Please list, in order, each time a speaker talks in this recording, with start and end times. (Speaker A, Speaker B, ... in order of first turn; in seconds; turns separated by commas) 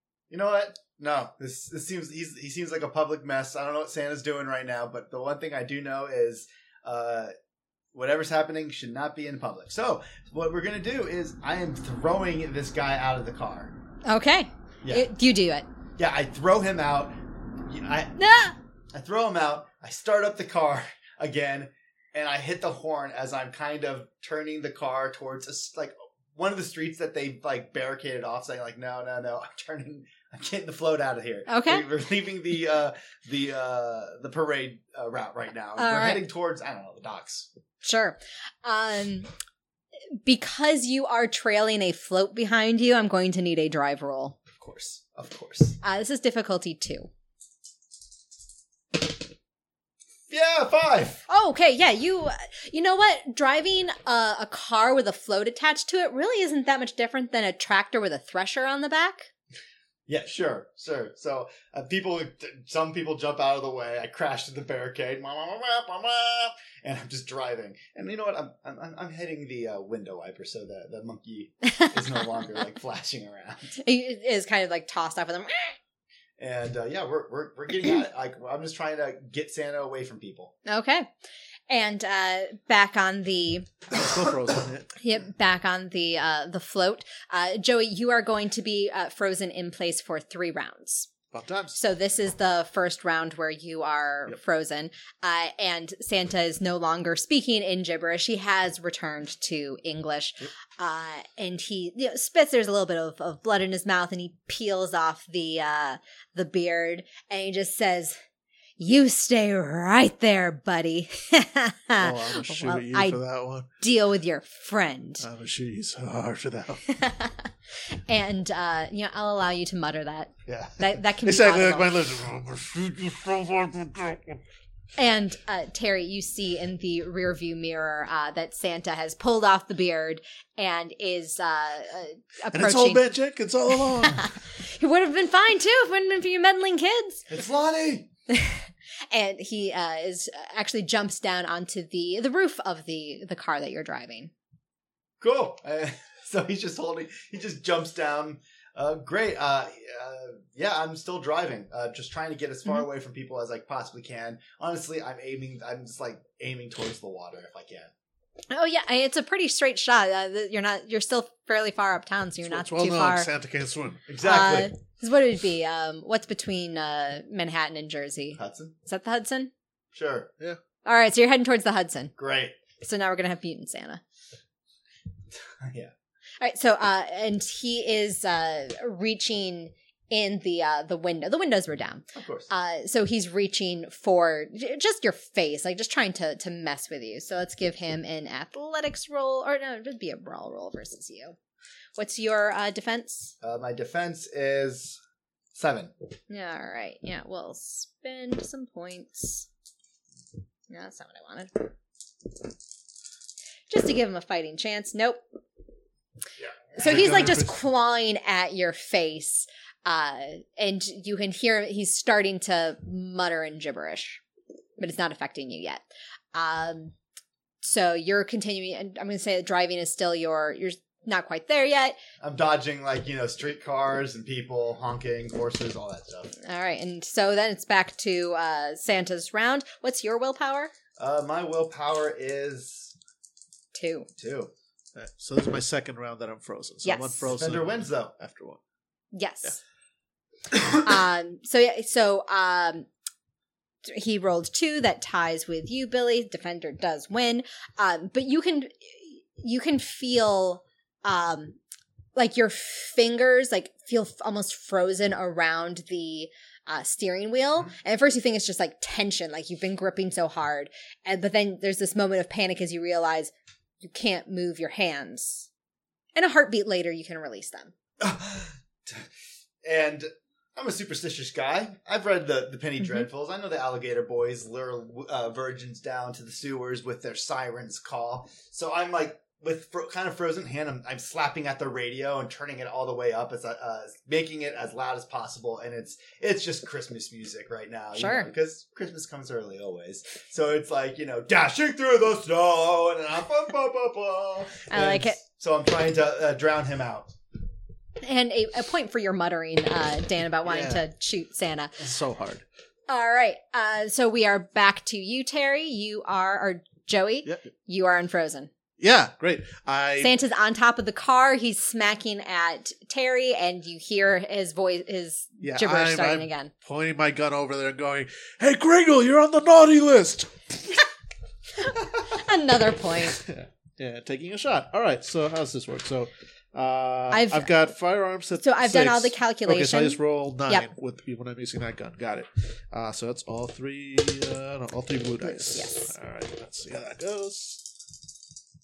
Speaker A: 0.3-7.3, Speaker A: 7.9-13.7, Speaker B: 14.1-15.7, Speaker A: 16.0-18.2, Speaker B: 18.2-18.6, Speaker A: 18.9-37.5, Speaker B: 31.5-31.9, Speaker B: 35.8-36.2, Speaker B: 37.8-39.3, Speaker B: 40.2-44.4, Speaker A: 44.6-45.8, Speaker B: 45.8-47.1, Speaker A: 50.3-51.2, Speaker B: 51.3-59.3, Speaker A: 60.1-73.8, Speaker B: 73.8-75.8, Speaker A: 76.4-80.5, Speaker B: 80.7-81.1, Speaker B: 81.7-83.7, Speaker C: 83.9-84.9, Speaker B: 85.0-91.1, Speaker C: 91.3-91.8, Speaker B: 91.8-108.2, Speaker B: 108.8-113.2, Speaker C: 112.0-113.7, Speaker B: 113.8-115.3, Speaker C: 115.2-116.8, Speaker B: 116.9-117.5, Speaker B: 118.1-121.9, Speaker C: 120.5-124.4, Speaker B: 125.0-133.1, Speaker C: 132.5-134.4, Speaker B: 134.0-137.3, Speaker A: 137.3-138.1, Speaker B: 138.3-144.3, Speaker A: 145.2-157.9, Speaker B: 158.5-163.3, Speaker C: 162.4-164.0, Speaker A: 164.1-164.7, Speaker B: 164.2-169.5, Speaker A: 168.4-168.7, Speaker A: 169.9-170.3, Speaker B: 170.8-172.1, Speaker A: 172.2-172.6, Speaker B: 172.8-174.0, Speaker A: 175.4-175.9, Speaker B: 176.4-191.4, Speaker A: 182.2-182.5, Speaker B: 192.0-193.3, Speaker A: 193.4-195.0, Speaker A: 195.5-195.9, Speaker B: 196.3-199.5, Speaker B: 200.7-201.7, Speaker B: 203.7-205.2, Speaker B: 206.8-214.2, Speaker C: 206.8-207.5, Speaker B: 214.8-216.9, Speaker B: 217.6-222.0, Speaker A: 222.2-226.3, Speaker B: 226.4-230.7, Speaker A: 231.0-232.9, Speaker B: 233.7-234.1, Speaker A: 234.2-234.5, Speaker C: 234.9-238.6, Speaker B: 236.8-237.2, Speaker A: 237.3-238.1, Speaker B: 239.1-239.6, Speaker B: 240.8-242.9, Speaker B: 243.8-251.6, Speaker B: 252.2-265.5, Speaker B: 266.1-267.7, Speaker A: 268.0-269.1, Speaker A: 269.6-297.1, Speaker B: 287.9-288.3, Speaker B: 294.7-295.2, Speaker B: 298.0-301.8, Speaker C: 300.5-300.8, Speaker C: 301.8-302.4, Speaker B: 302.9-308.5, Speaker C: 308.8-310.2, Speaker B: 310.0-316.5, Speaker C: 315.4-320.6, Speaker B: 321.6-323.2, Speaker C: 323.1-337.7, Speaker B: 327.1-327.5, Speaker B: 328.4-330.7, Speaker B: 335.2-335.9